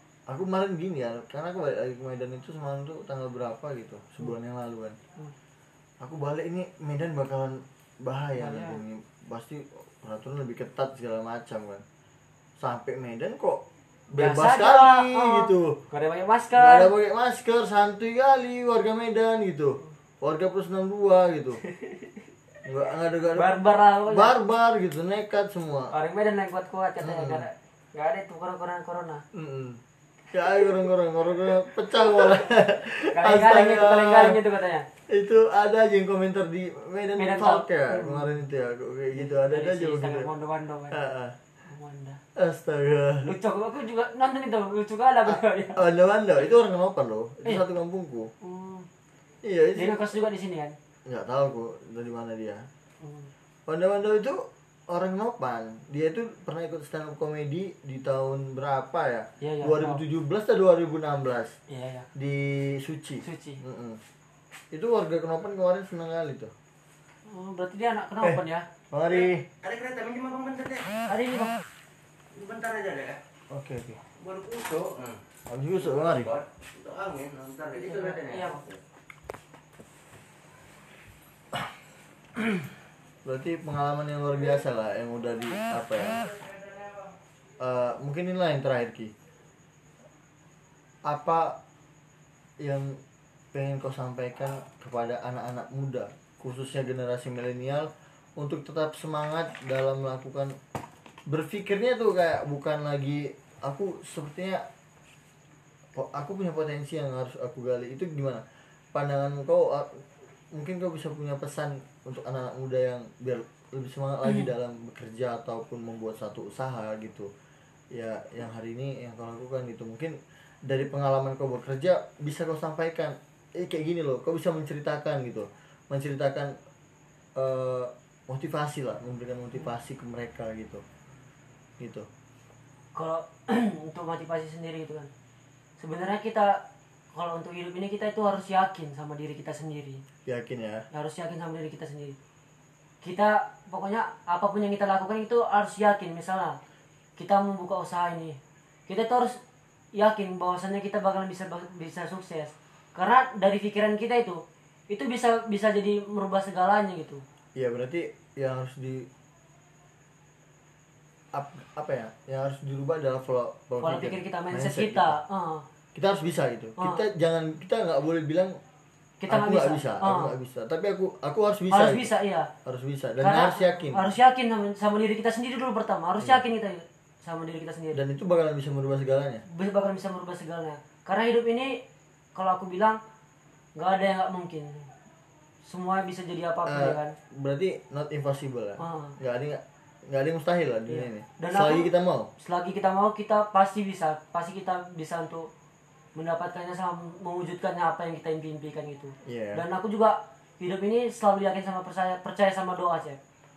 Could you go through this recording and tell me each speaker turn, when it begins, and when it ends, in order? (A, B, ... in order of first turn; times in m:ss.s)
0:00.3-0:05.0 A
0:06.0-0:11.8 A
0:08.4-0:08.8 B
0:12.6-0:15.8 A
0:14.2-0:16.9 B
0:16.6-0:21.6 A
0:21.7-0:22.1 B
0:22.6-0:23.5 A
0:23.4-0:24.4 B
0:24.1-0:25.9 A
0:25.9-0:29.2 B
0:27.0-0:27.4 A
0:29.3-0:34.4 A
0:33.1-0:34.9 B
0:35.1-0:40.3 A
0:37.2-0:38.3 B
0:39.1-0:41.0 B
0:40.9-0:41.4 A
0:41.6-0:42.2 B
0:42.4-0:43.3 A
0:43.2-0:45.8 B
0:45.3-0:48.3 A
0:48.4-0:48.9 B
0:49.4-0:50.0 A
0:49.8-0:50.8 B
0:51.1-0:52.7 A
0:53.0-0:53.3 B
0:53.7-1:01.6 A
0:59.4-1:00.0 B
1:01.7-1:02.1 B
1:02.2-1:04.0 A
1:03.2-1:03.6 B
1:04.7-1:06.5 A
1:07.3-1:08.7 B
1:08.2-1:09.5 A
1:09.1-1:11.1 C
1:11.1-1:11.6 B
1:12.3-1:13.2 C
1:13.5-1:14.0 A
1:14.2-1:15.2 C
1:15.5-1:16.3 A
1:15.8-1:18.8 C
1:17.8-1:18.6 B
1:23.2-1:26.3 A
1:27.6-1:29.1 A
1:31.1-1:31.6 A
1:32.6-1:33.0 A
1:33.5-1:40.6 A
1:41.3-1:44.6 A
1:46.0-1:57.3 A
1:57.9-2:06.6 A
2:07.4-2:10.8 A
2:11.8-2:12.1 A
2:13.0-2:15.1 B
2:15.8-2:20.0 B
2:20.3-2:20.9 A
2:20.9-2:22.2 B
2:23.0-2:26.6 B
2:27.2-2:29.4 B
2:30.0-2:37.2 B
2:37.6-2:39.1 A
2:41.3-2:45.2 A
2:43.8-2:45.6 B
2:46.0-2:48.6 A
2:46.8-2:47.0 B
2:49.2-2:50.3 B
2:49.3-2:52.1 A
2:51.7-2:52.5 B
2:52.6-2:54.1 A
2:53.2-2:58.0 B
2:57.9-2:59.4 A
2:59.5-3:01.8 B
3:02.4-3:03.0 B
3:03.8-3:04.9 B
3:05.6-3:07.2 B
3:06.7-3:12.3 A
3:08.8-3:09.2 B
3:10.9-3:15.5 B
3:16.2-3:23.2 B
3:19.2-3:19.6 A